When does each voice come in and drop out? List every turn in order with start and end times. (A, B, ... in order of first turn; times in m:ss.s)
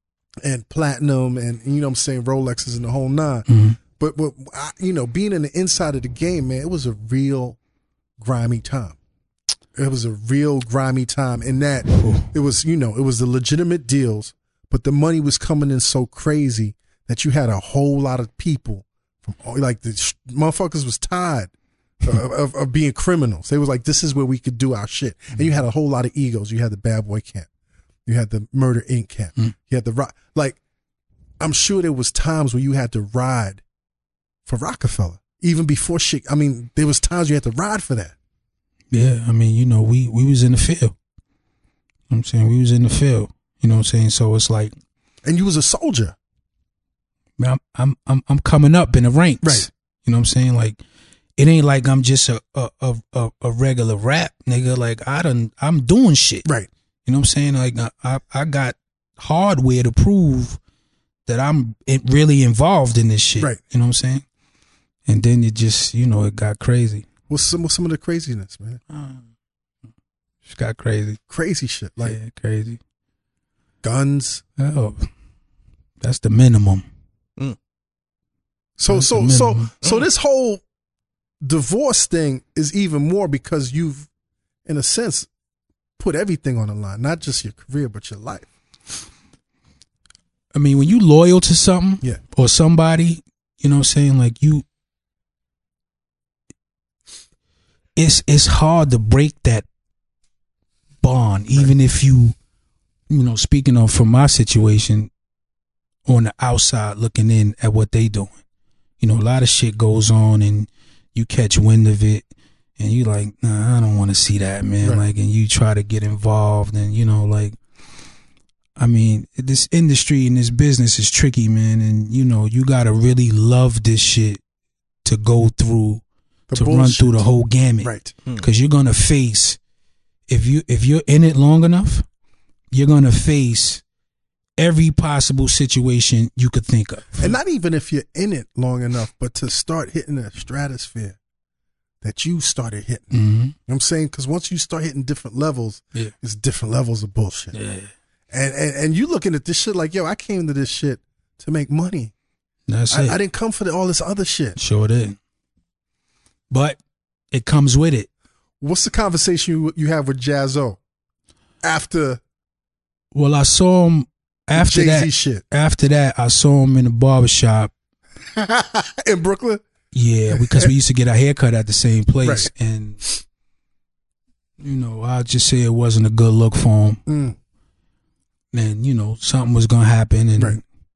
0:00.4-0:07.6 A
0:03.5-0:03.8 B
0:08.2-0:09.0 A
0:09.8-0:21.5 A
0:11.9-0:12.3 B
0:22.0-0:27.5 A
0:28.1-0:30.6 A
0:31.4-0:33.6 A
0:34.5-0:38.2 A
0:38.9-0:40.9 B
0:42.1-0:44.7 B
0:45.2-0:46.2 A
0:47.4-0:50.8 B
0:49.4-0:49.7 A
0:51.4-0:56.5 B
0:57.1-1:00.6 B
1:01.3-1:04.2 B
1:05.1-1:07.1 B
1:07.3-1:08.8 A
1:08.9-1:09.2 B
1:10.4-1:11.2 B
1:11.3-1:12.2 A
1:12.0-1:12.8 B
1:13.8-1:14.4 A
1:14.6-1:15.1 B
1:16.0-1:16.8 B
1:18.8-1:20.6 A
1:18.9-1:19.7 B
1:21.4-1:24.1 A
1:24.7-1:25.3 A
1:26.0-1:28.5 A
1:30.5-1:34.6 B
1:38.0-1:39.7 B
1:41.0-1:42.4 B
1:43.1-1:45.1 B
1:46.1-1:48.4 B
1:49.0-1:52.2 B
1:52.8-1:57.6 B
1:58.8-2:04.4 B
2:05.0-2:09.6 B
2:06.5-2:07.2 A
2:07.8-2:08.1 A
2:10.3-2:12.1 B
2:12.7-2:13.8 B
2:14.6-2:17.3 B
2:17.2-2:21.2 A
2:22.0-2:23.1 A
2:23.1-2:23.6 B
2:23.7-2:27.6 A
2:27.5-2:27.9 B
2:28.3-2:32.1 A
2:32.7-2:33.2 B
2:32.9-2:34.6 A
2:34.6-2:35.2 B
2:36.5-2:36.8 B
2:37.3-2:38.1 B
2:38.6-2:40.8 A
2:41.6-2:42.2 A
2:43.1-2:47.7 B
2:44.6-2:45.4 A
2:48.3-2:49.6 A
2:49.9-2:53.0 B
2:50.3-2:50.7 A
2:52.2-2:52.5 A
2:54.6-2:57.0 B
2:57.1-2:57.4 A
2:58.5-3:00.6 B